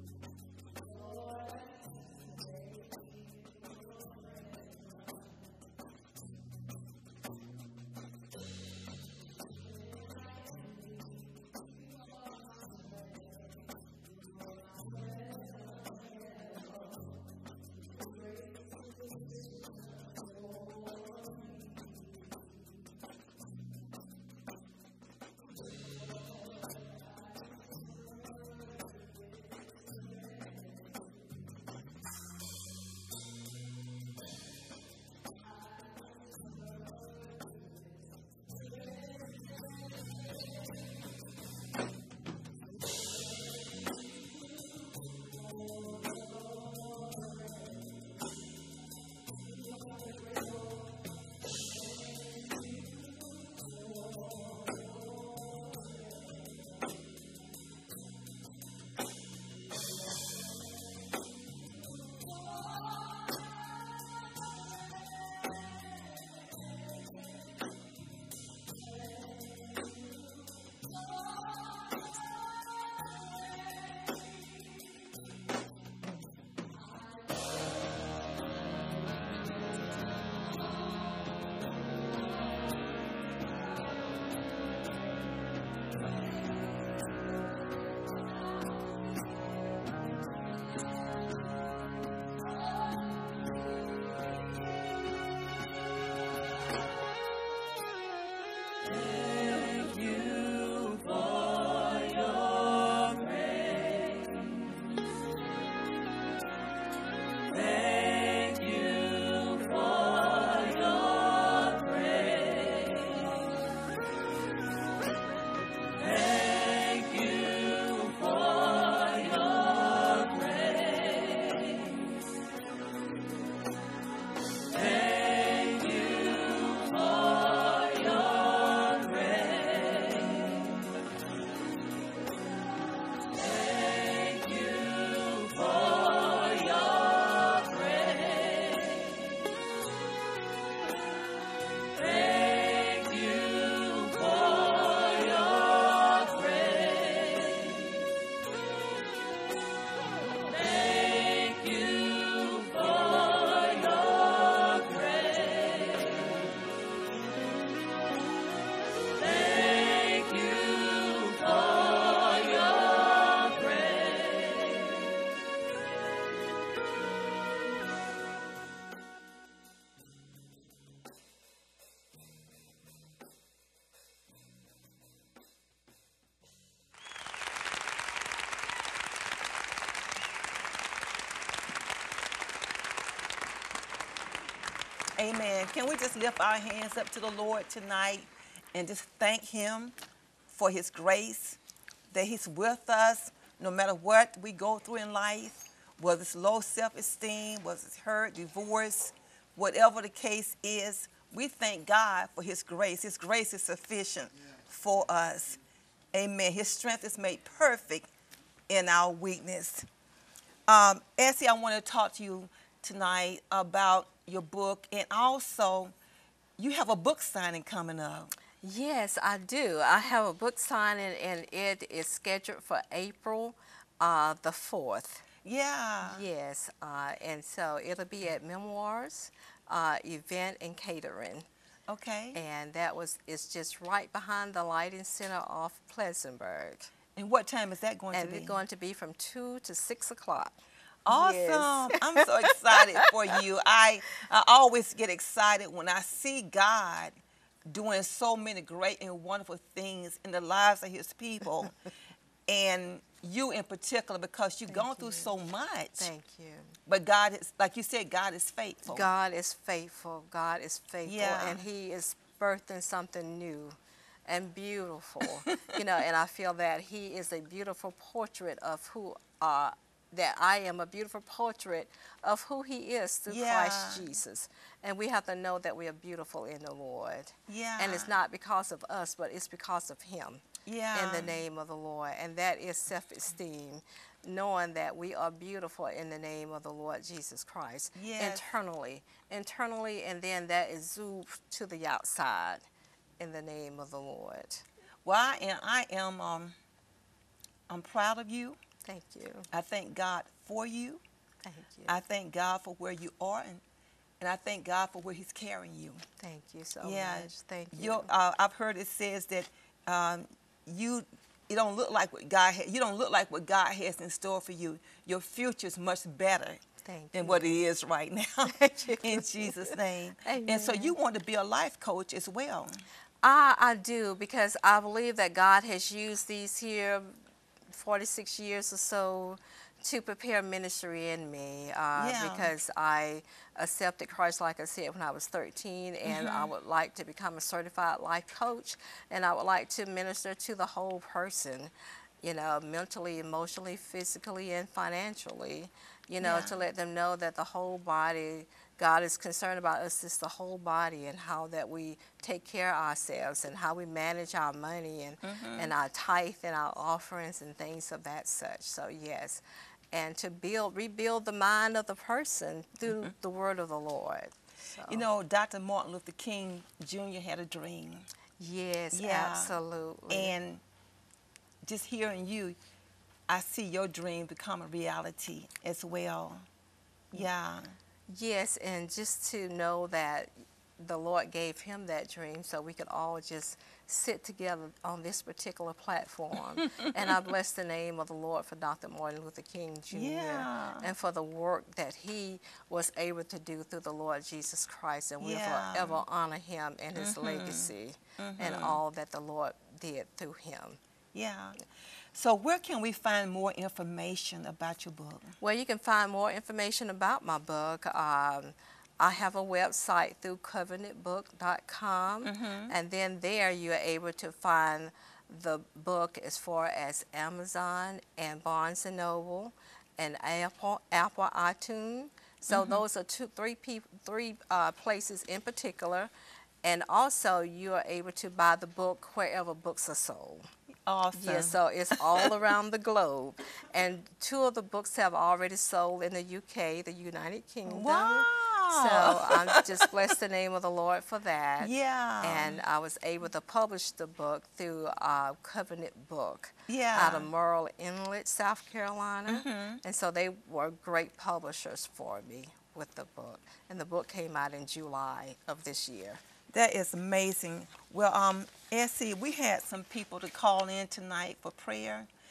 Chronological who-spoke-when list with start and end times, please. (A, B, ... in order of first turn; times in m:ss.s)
3:05.2-3:09.9 A
3:10.5-3:11.6 A
3:12.1-3:25.6 A
3:26.1-3:28.1 A
3:28.7-3:29.9 A
3:30.7-3:35.9 A
3:36.6-3:38.3 A
3:38.6-3:45.2 B
3:45.4-3:46.2 A
3:46.0-3:51.5 B
3:51.9-3:52.4 A
3:52.3-3:56.9 B
3:57.2-3:58.6 A
3:58.1-4:00.6 B
4:01.1-4:07.2 A
4:01.1-4:03.4 B
4:07.7-4:11.8 A
4:12.5-4:16.1 A
4:14.7-4:15.3 B
4:16.0-4:16.8 B
4:16.9-4:19.1 A
4:18.9-4:52.7 B
4:21.1-4:21.6 A
4:33.3-4:34.1 A
4:37.5-4:38.1 A
4:40.7-4:41.4 A
4:48.0-4:48.5 A
4:53.2-4:54.6 B
4:55.0-4:56.6 A
4:57.7-4:58.6 A
4:58.8-4:59.5 B
4:59.5-5:01.0 A
5:01.4-5:02.0 B
5:01.9-5:03.6 A
5:04.2-5:06.0 A
5:06.2-5:08.1 B
5:06.8-5:16.6 A
5:16.8-5:17.6 B
5:17.1-5:22.8 A
5:18.5-5:21.0 B
5:23.2-5:27.1 B
5:27.7-5:41.7 B
5:32.0-5:32.5 A
5:36.1-5:36.5 A
5:42.2-6:05.0 B
5:46.2-5:46.5 A
5:55.2-5:55.7 A
6:04.9-6:08.1 A
6:08.4-6:10.3 B
6:08.9-6:09.6 A
6:10.1-6:10.6 A
6:11.6-6:12.6 A
6:13.3-6:16.4 A
6:17.1-6:17.8 A
6:18.1-6:40.8 B
6:29.9-6:30.9 A
6:35.2-6:36.0 A
6:37.0-6:38.8 A
6:41.1-6:41.6 A
6:42.1-6:45.4 A
6:45.4-7:06.1 B
6:52.2-6:52.7 A
7:02.5-7:02.8 A
7:06.6-7:10.5 B
7:10.9-7:12.3 A
7:11.1-7:36.2 B
7:17.7-7:19.9 A
7:21.6-7:22.6 A
7:26.7-7:27.3 A
7:29.3-7:29.8 A
7:36.5-7:42.1 A